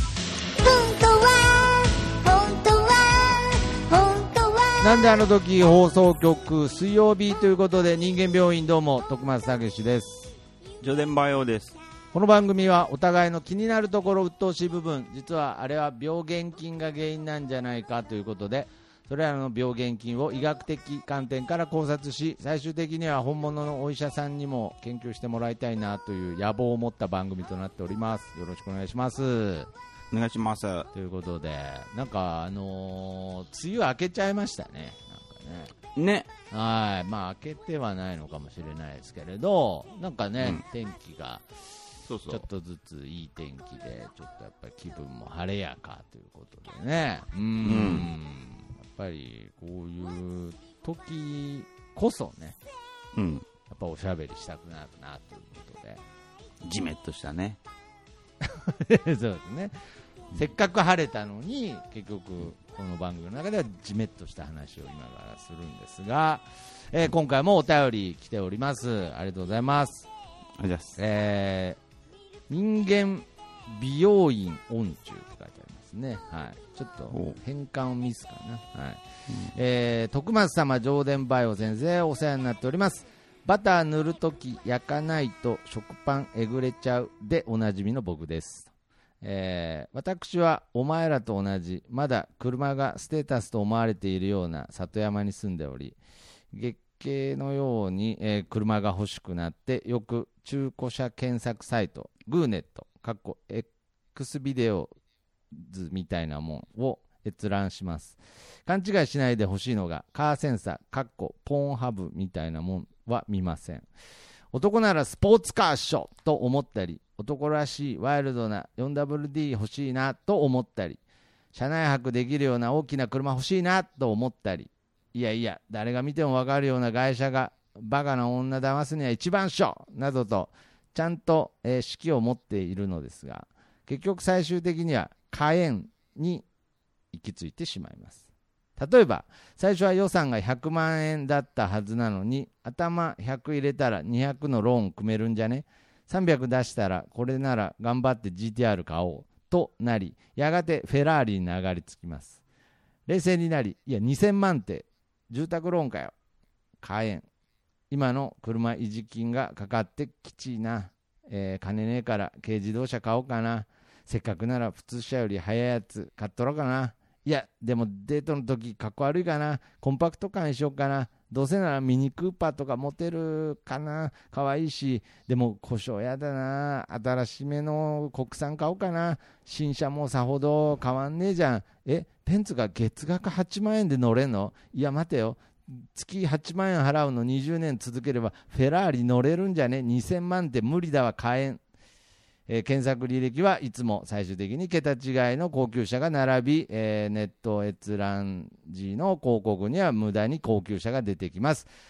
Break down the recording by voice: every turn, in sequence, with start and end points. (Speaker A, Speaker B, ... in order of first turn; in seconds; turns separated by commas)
Speaker A: 0.6-5.1, Speaker B: 4.8-10.3, Speaker C: 10.8-11.8, Speaker B: 12.1-29.7, Speaker C: 30.1-30.9, Speaker B: 30.9-35.7, Speaker C: 36.0-36.3, Speaker B: 36.5-41.5, Speaker C: 42.0-42.5, Speaker B: 42.3-52.6, Speaker C: 47.6-48.1, Speaker C: 53.1-53.5, Speaker B: 53.7-56.0, Speaker C: 56.6-57.6, Speaker B: 58.4-59.8, Speaker B: 60.3-70.1, Speaker C: 70.6-71.0, Speaker B: 71.0-71.8, Speaker B: 72.5-88.7, Speaker C: 77.1-77.4, Speaker B: 89.2-96.0, Speaker B: 96.5-104.9, Speaker B: 105.5-113.9, Speaker B: 114.5-121.0, Speaker B: 121.5-136.4, Speaker B: 137.1-138.2, Speaker B: 138.8-152.4, Speaker B: 153.1-156.1, Speaker B: 156.8-157.2, Speaker B: 157.9-191.6, Speaker B: 192.5-201.7